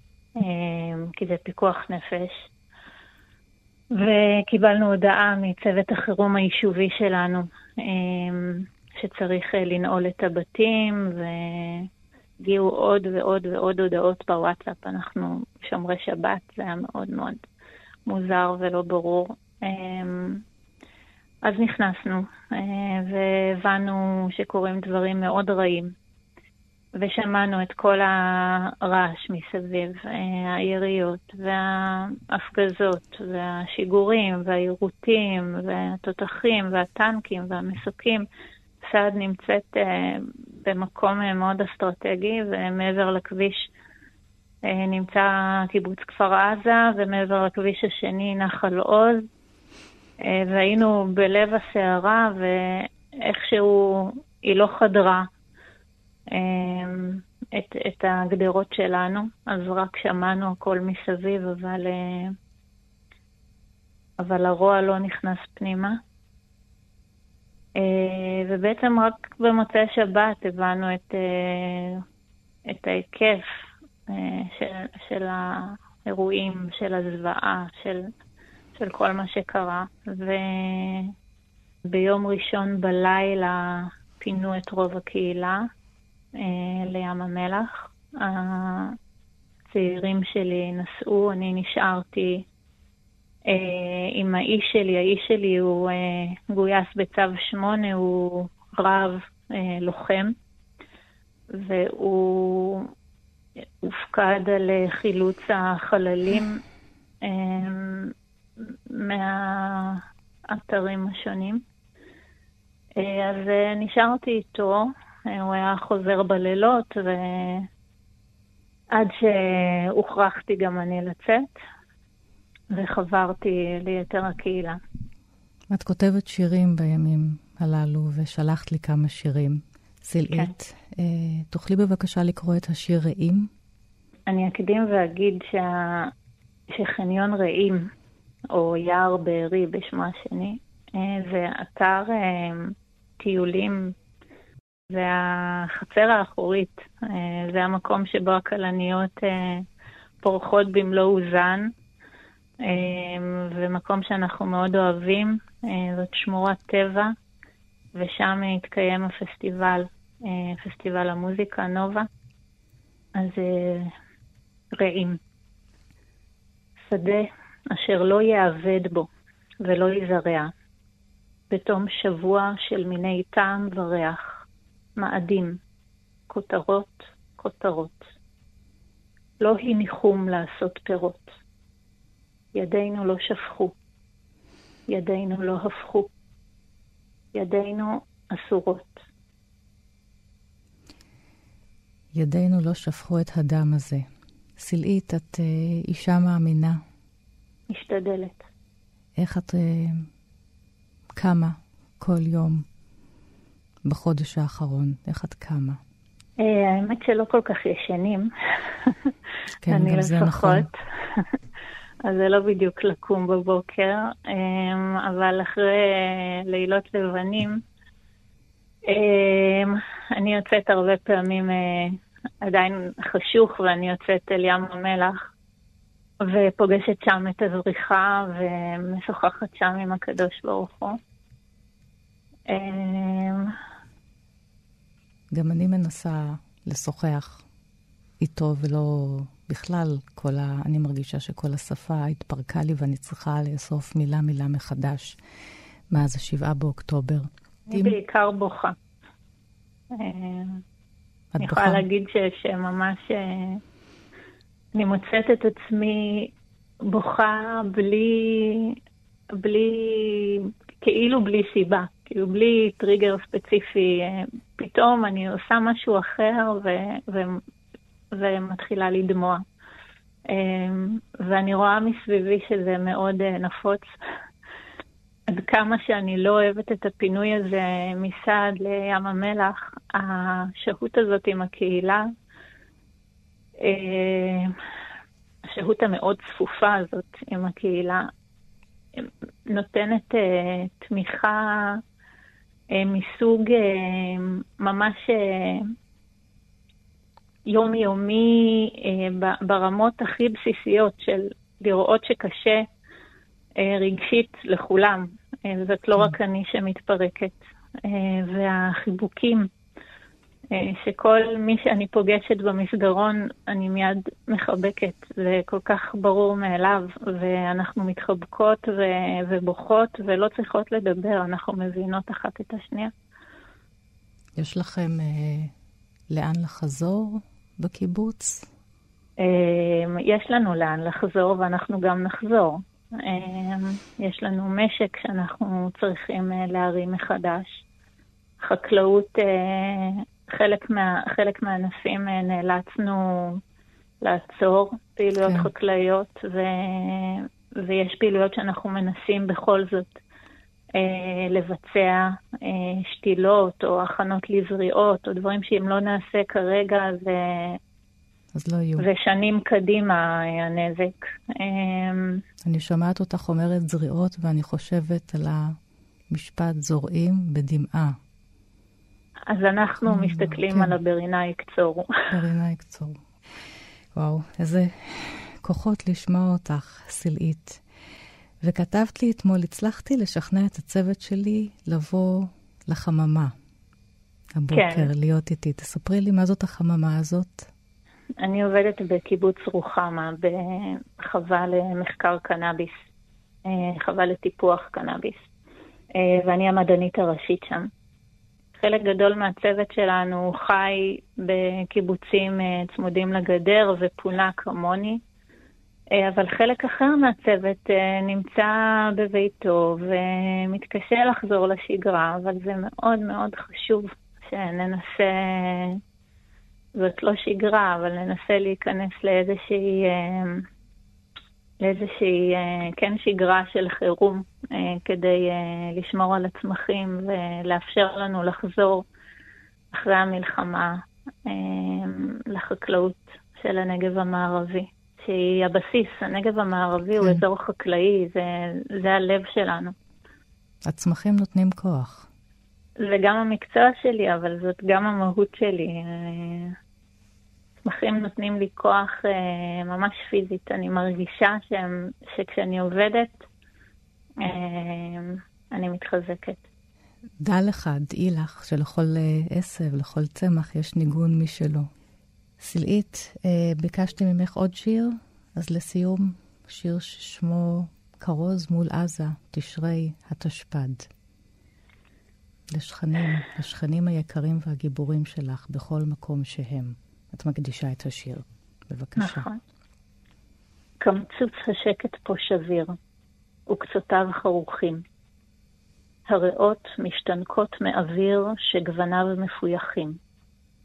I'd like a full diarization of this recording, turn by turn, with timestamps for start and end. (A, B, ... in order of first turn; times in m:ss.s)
0:00.4-0:02.5 A
0:04.0-0:11.9 A
0:12.4-0:17.4 A
0:18.0-0:20.4 A
0:21.4-0:25.9 A
0:27.0-0:38.3 A
0:38.8-0:43.7 A
0:44.7-0:49.3 A
0:50.2-0:55.2 A
0:56.3-1:02.3 A
1:04.2-1:06.0 A
1:07.8-1:12.0 A
1:12.7-1:13.5 A
1:14.1-1:18.1 A
1:18.7-1:21.1 A
1:21.8-1:25.6 A
1:26.3-1:29.0 A
1:29.7-1:32.4 A
1:33.5-1:40.3 A
1:41.5-1:42.9 A
1:43.8-1:46.6 A
1:47.2-1:51.6 A
1:53.0-1:57.7 A
1:58.9-2:01.4 A
2:02.7-2:04.8 A
2:05.7-2:13.5 B
2:14.3-2:16.1 A
2:16.7-2:17.9 A
2:18.5-2:23.9 A
2:24.9-2:29.6 A
2:30.2-2:31.7 A
2:32.6-2:37.1 A
2:37.9-2:42.1 A
2:43.1-2:43.9 A
2:44.7-2:45.2 A
2:46.8-2:49.1 A
2:49.6-2:50.5 A
2:51.5-2:54.4 A
2:55.0-2:55.6 A
2:56.3-2:58.1 A
2:59.4-3:01.4 A
3:02.5-3:03.7 A
3:04.9-3:06.1 A
3:07.3-3:09.0 A
3:12.1-3:14.0 B
3:14.6-3:16.8 B
3:17.7-3:18.4 A
3:19.2-3:20.0 B
3:21.2-3:22.6 B
3:23.8-3:25.8 B
3:26.4-3:29.1 A
3:29.6-3:30.7 B
3:29.7-3:31.3 A
3:32.0-3:37.6 A
3:38.9-3:45.2 A
3:46.2-3:51.0 A
3:52.5-3:53.5 A
3:55.3-3:57.4 B
3:58.2-4:05.2 B
4:05.9-4:08.0 B
4:07.7-4:08.7 A
4:09.9-4:10.6 A
4:11.3-4:11.8 B
4:11.4-4:13.6 A
4:14.7-4:16.3 A
4:16.9-4:18.8 A
4:19.4-4:27.4 A
4:28.1-4:29.4 A
4:30.3-4:34.0 A
4:35.3-4:42.0 A
4:43.6-4:44.5 A
4:45.5-4:48.1 A
4:49.0-4:51.8 A
4:52.7-4:55.6 A
4:57.5-5:02.6 A
5:03.6-5:09.5 A
5:10.5-5:22.9 A
5:24.4-5:25.5 B
5:26.1-5:28.5 B
5:29.2-5:37.6 A
5:38.4-5:43.4 A
5:44.0-5:50.0 A
5:45.2-5:45.5 B
5:50.7-5:57.6 A
5:58.3-5:58.9 B
5:58.8-6:02.2 A
6:02.4-6:05.5 B
6:06.1-6:07.9 B
6:09.3-6:11.9 A
6:09.8-6:10.7 B
6:12.1-6:13.0 B
6:13.9-6:17.6 B
6:18.4-6:23.3 B
6:24.3-6:27.5 B
6:24.5-6:24.9 A
6:28.2-6:32.8 A
6:33.4-6:35.3 A
6:36.0-6:37.7 A
6:38.5-6:45.0 A
6:45.9-6:55.8 A
6:56.7-7:00.4 A
7:01.6-7:08.8 A
7:09.7-7:10.7 A
7:11.2-7:19.7 A
7:20.7-7:22.1 B
7:22.8-7:26.6 A
7:27.6-7:33.3 A
7:34.2-7:36.4 A
7:37.2-7:41.7 B
7:42.4-7:50.9 B
7:52.5-7:59.2 B
7:59.0-7:59.4 A
8:00.8-8:02.8 A
8:03.5-8:04.8 A
8:06.1-8:10.0 A